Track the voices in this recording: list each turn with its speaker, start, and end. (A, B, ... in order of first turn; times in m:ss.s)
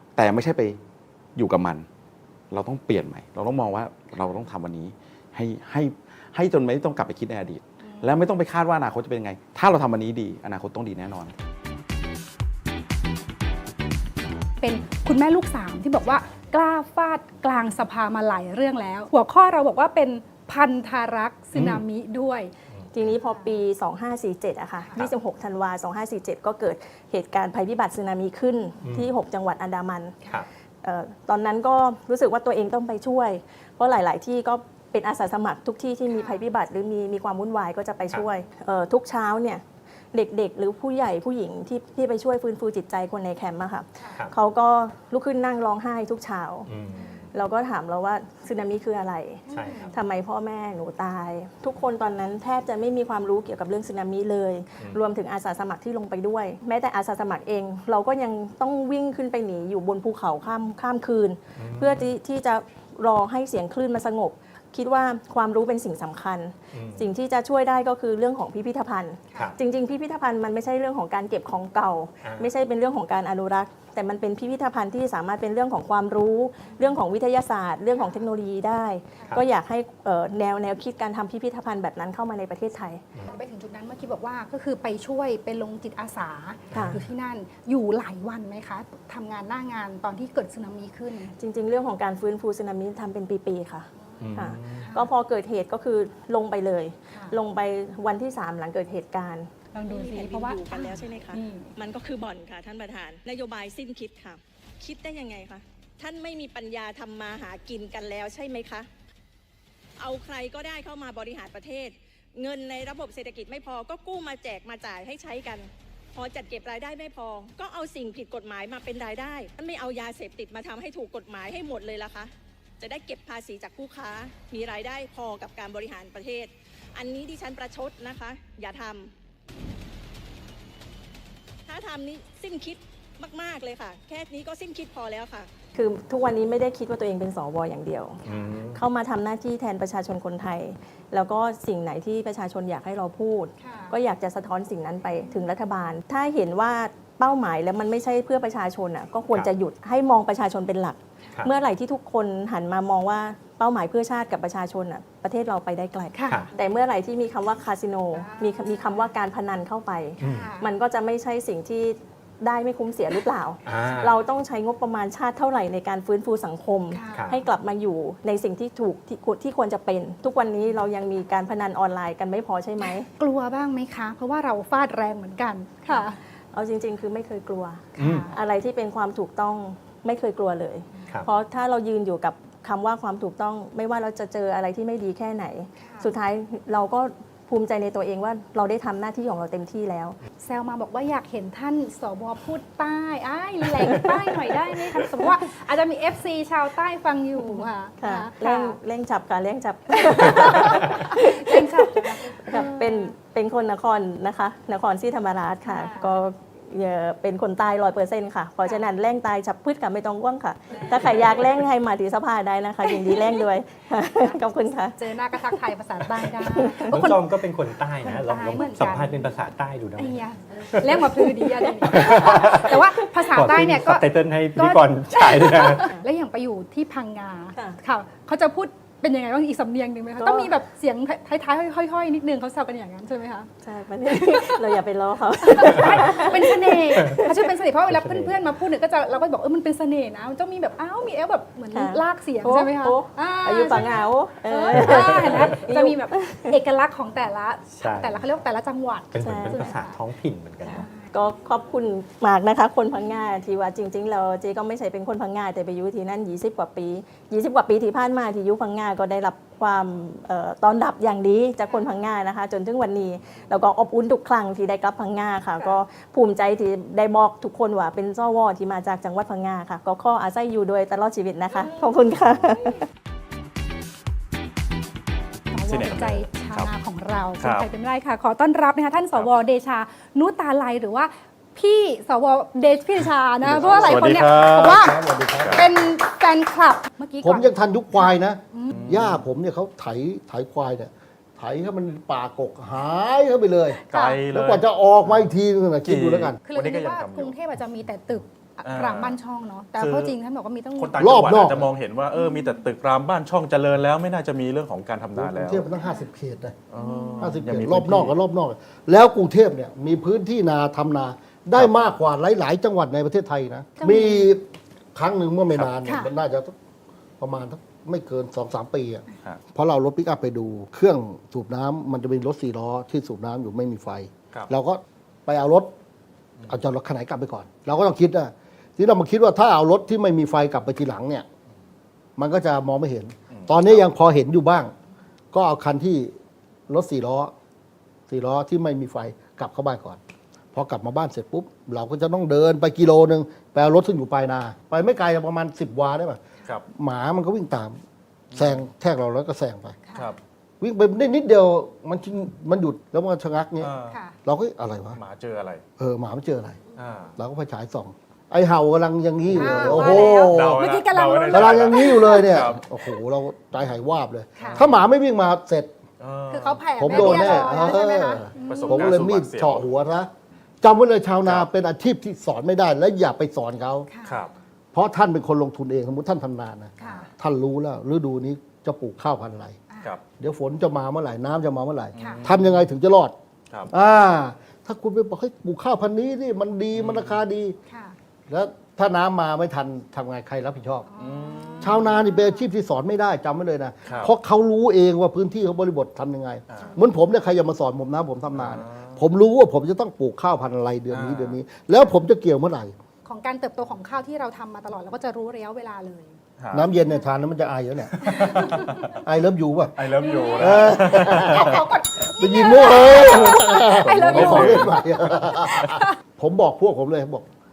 0:00.2-0:00.8 A
0:01.4-0:01.9 A
0:02.5-0:11.4 A
0:07.8-0:08.2 B
0:14.6-0:22.5 B
0:21.5-0:21.8 C
0:22.9-0:30.2 D
0:23.3-0:23.6 B
0:28.8-0:29.1 C
0:30.8-0:46.7 D
0:36.1-0:36.4 B
0:44.0-0:44.3 B
0:46.7-0:47.3 C
0:47.3-1:23.1 D
0:49.5-0:50.0 B
0:49.5-0:49.9 C
1:01.6-1:02.1 C
1:06.7-1:07.1 C
1:12.2-1:12.5 C
1:18.0-1:18.2 B
1:23.3-1:31.4 B
1:26.7-1:27.0 C
1:31.4-1:39.5 D
1:34.0-1:35.1 B
1:34.2-1:34.9 C
1:37.1-1:37.4 B
1:39.7-1:41.7 B
1:39.9-1:48.9 E
1:50.0-2:09.1 E
2:11.7-2:15.5 E
2:15.8-2:18.2 D
2:18.2-2:18.8 C
2:18.7-2:53.1 D
2:23.6-2:24.0 B
2:36.2-2:36.5 B
2:38.1-2:39.1 B
2:40.2-2:40.5 C
2:40.2-2:40.7 B
2:43.6-2:44.2 C
2:46.9-2:47.4 B
2:47.1-2:47.4 C
2:53.2-2:56.2 B
2:55.9-3:10.2 D
2:58.0-2:58.3 B
2:58.0-2:58.3 C
3:05.8-3:06.1 B
3:10.4-3:18.8 B
3:18.0-3:35.1 D
3:20.0-3:23.1 B
3:25.6-3:26.2 B
3:30.8-3:31.4 B
3:32.9-3:33.4 B
3:35.0-3:37.4 B
3:36.4-3:37.2 D
3:36.7-3:45.9 C
3:38.0-3:39.2 B
3:40.0-3:53.5 B
3:50.2-3:50.5 D
3:53.6-3:57.3 D
3:54.1-3:54.8 B
3:55.4-4:10.0 B
3:55.6-3:56.2 C
3:57.9-3:58.4 C
4:01.7-4:06.6 D
4:04.7-4:05.7 C
4:07.7-4:08.2 C
4:09.1-4:10.9 C
4:09.2-4:09.8 D
4:10.6-4:11.1 B
4:11.1-4:32.8 D
4:21.7-4:22.0 B
4:31.5-4:31.9 B
4:35.5-4:49.0 B
4:35.7-4:36.7 F
4:37.4-4:37.7 F
4:43.4-4:45.9 G
4:43.5-4:44.9 F
4:45.4-4:45.7 F
4:47.2-4:56.4 G
4:48.7-4:49.3 F
4:53.9-4:57.4 F
4:53.9-4:54.3 B
4:56.4-5:01.2 B
4:58.6-4:59.2 F
4:59.8-5:00.2 F
5:00.8-5:05.7 F
5:01.0-5:01.7 G
5:02.1-5:02.7 B
5:05.2-5:06.6 G
5:05.8-5:06.1 B
5:06.7-5:08.2 F
5:06.8-5:07.5 B
5:07.2-5:14.4 G
5:13.8-5:14.3 B
5:14.9-5:16.5 G
5:15.5-5:15.8 F
5:15.8-5:16.1 B
5:17.2-5:25.7 G
5:26.5-5:31.3 G
5:32.2-5:34.7 G
5:33.3-5:33.9 F
5:35.3-5:36.2 G
5:36.7-5:37.3 G
5:38.1-5:40.0 G
5:40.5-5:46.2 G
5:46.7-5:47.8 G
5:48.3-5:48.7 F
5:48.3-5:49.8 G
5:49.9-5:50.2 B
5:50.6-5:55.0 G
5:53.6-5:54.0 F
5:53.8-5:54.2 B
5:54.9-5:55.6 F
5:55.8-5:56.6 G
5:56.8-5:57.2 F
5:57.2-6:00.7 G
5:59.3-6:02.6 F
5:59.3-6:02.4 B
6:01.3-6:05.7 G
6:04.4-6:04.7 B
6:04.4-6:04.8 F
6:06.0-6:07.8 F
6:06.3-6:09.0 B
6:06.8-6:10.1 G
6:08.4-6:09.7 F
6:10.6-6:13.9 G
6:11.2-6:11.5 F
6:13.9-6:14.3 B
6:14.0-6:14.3 F
6:14.7-6:19.6 G
6:16.8-6:17.1 B
6:16.8-6:17.1 F
6:19.7-6:20.0 B
6:20.2-6:23.2 G
6:22.0-6:22.7 F
6:22.0-6:22.3 B
6:23.7-6:27.6 G
6:26.7-6:27.2 F
6:27.7-6:28.0 B
6:28.3-6:30.9 G
6:30.9-6:32.5 B
6:31.0-6:32.0 F
6:31.6-6:42.8 G
6:33.8-6:34.1 F
6:36.5-6:36.8 F
6:36.6-6:37.0 B
6:38.3-6:39.1 F
6:40.9-6:41.4 F
6:43.0-6:47.1 B
6:46.4-6:46.7 F
6:46.5-6:49.8 G
6:47.9-6:49.0 F
6:48.0-6:49.0 B
6:49.8-6:51.6 F
6:49.9-6:56.0 B
6:50.4-6:51.6 G
6:52.2-6:57.2 G
6:52.7-6:55.8 F